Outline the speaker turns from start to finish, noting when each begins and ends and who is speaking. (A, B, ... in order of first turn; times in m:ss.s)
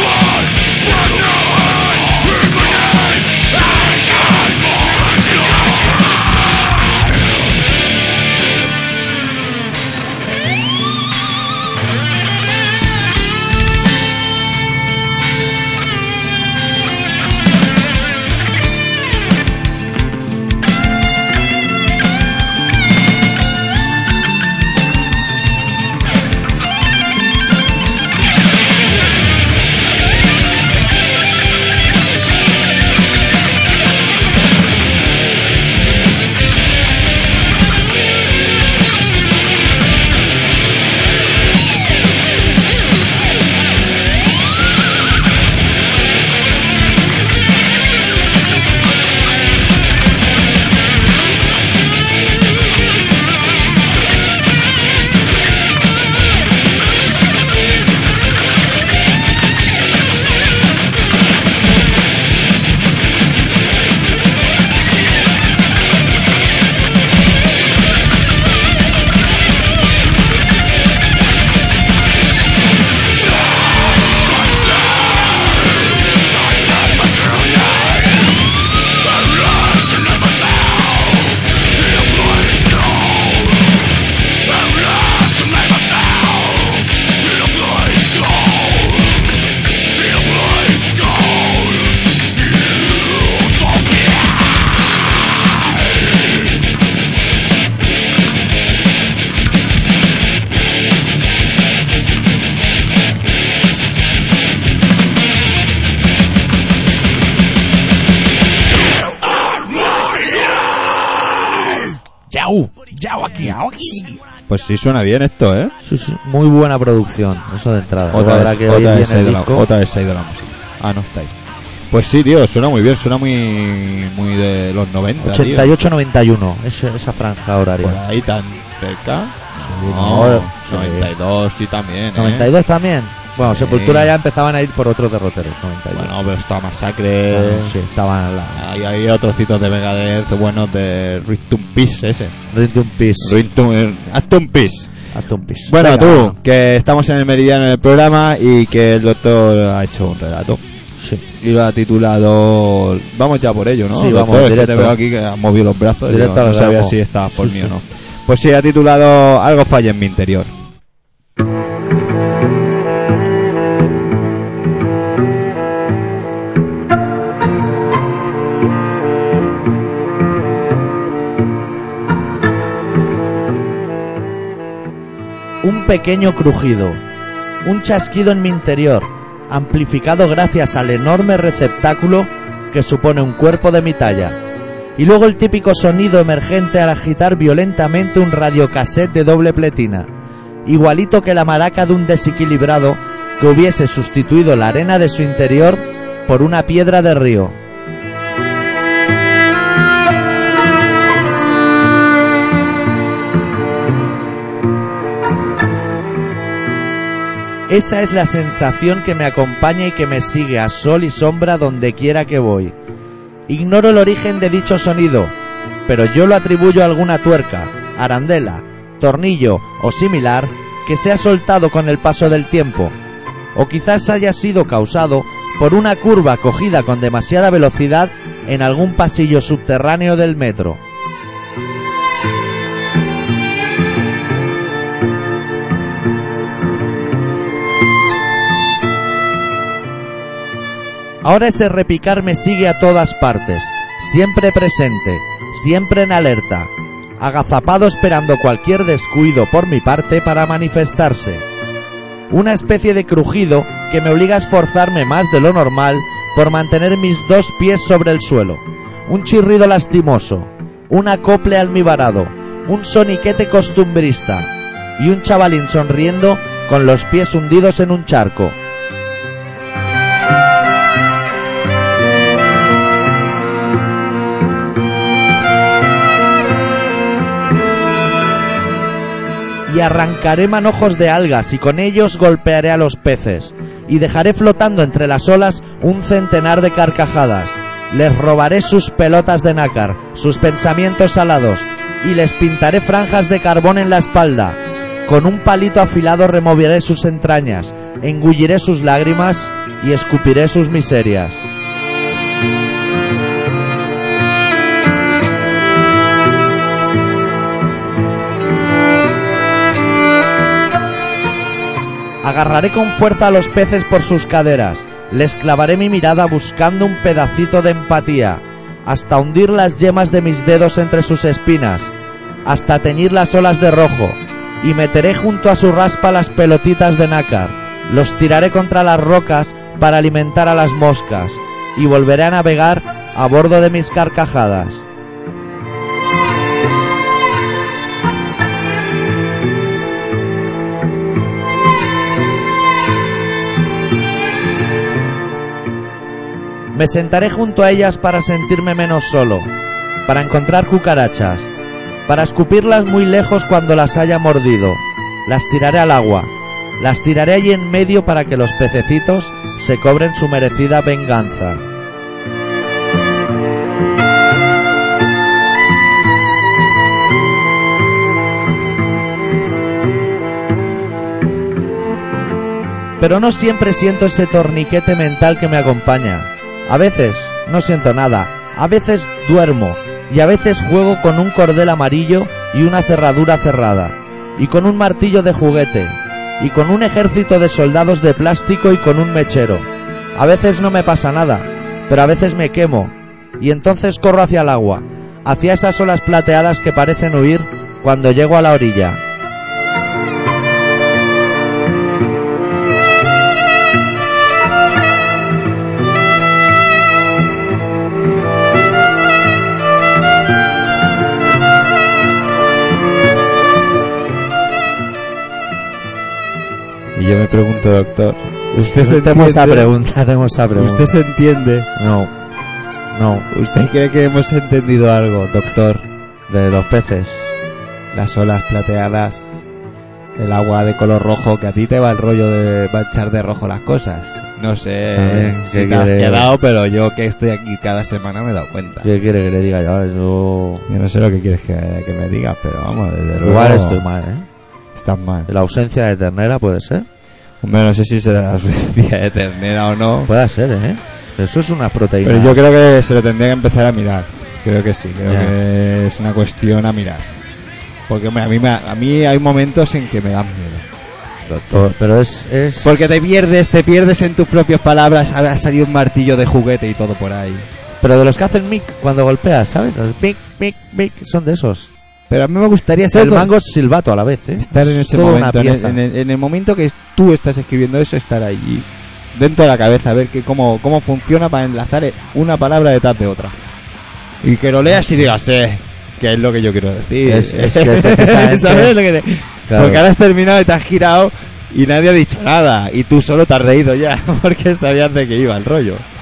1:52.3-1:54.2 A
1:54.5-1:55.7 B
1:55.8-1:59.6 A
1:58.1-2:01.3 B
2:01.9-2:05.7 B
2:05.2-2:08.0 A
2:07.8-2:12.5 B
2:09.6-2:11.1 A
2:12.2-2:16.1 A
2:13.4-2:14.1 B
2:15.9-2:17.8 B
2:17.3-2:18.6 A
2:18.5-2:22.4 B
2:22.5-2:23.4 A
2:23.2-2:24.9 B
2:25.1-2:26.4 A
2:25.7-2:30.6 B
2:31.0-2:31.2 A
2:31.4-2:40.5 B
2:33.9-2:35.0 A
2:36.1-2:37.7 A
2:55.6-2:57.0 A
2:57.6-3:04.4 A
3:05.0-3:10.1 A
3:10.6-3:17.6 A
3:27.7-3:32.8 A
3:33.5-3:35.3 A
3:35.9-3:42.9 A
3:43.5-3:50.8 A
4:01.2-4:11.4 A
4:12.3-4:28.6 A
4:39.7-5:01.4 A
5:12.2-5:21.9 A
5:22.4-5:34.8 A
5:46.7-5:49.5 A
5:50.1-5:51.5 A
5:52.1-6:01.6 A
6:13.0-6:39.0 A
6:57.0-6:59.7 B
6:58.6-7:01.0 A
7:00.6-7:01.7 B
7:01.8-7:02.1 A
7:02.9-7:03.3 A
7:03.3-7:05.9 B
7:06.3-7:07.3 A
7:07.9-7:09.4 B
7:10.2-7:18.9 B
7:14.9-7:16.3 A
7:18.8-7:20.6 A
7:20.7-7:23.8 B
7:23.2-7:24.3 A
7:24.8-7:25.3 B
7:25.3-7:26.9 A
7:27.4-7:30.1 B
7:30.1-7:32.4 A
7:32.0-7:37.1 B
7:35.1-7:35.3 A
7:37.9-7:40.7 B
7:41.3-7:42.9 A
7:42.6-7:47.5 B
7:47.7-7:51.7 A
7:52.1-7:53.3 B
7:52.9-7:55.8 A
7:54.4-8:03.4 B
8:04.2-8:15.8 B
8:07.1-8:08.7 A
8:09.5-8:09.8 A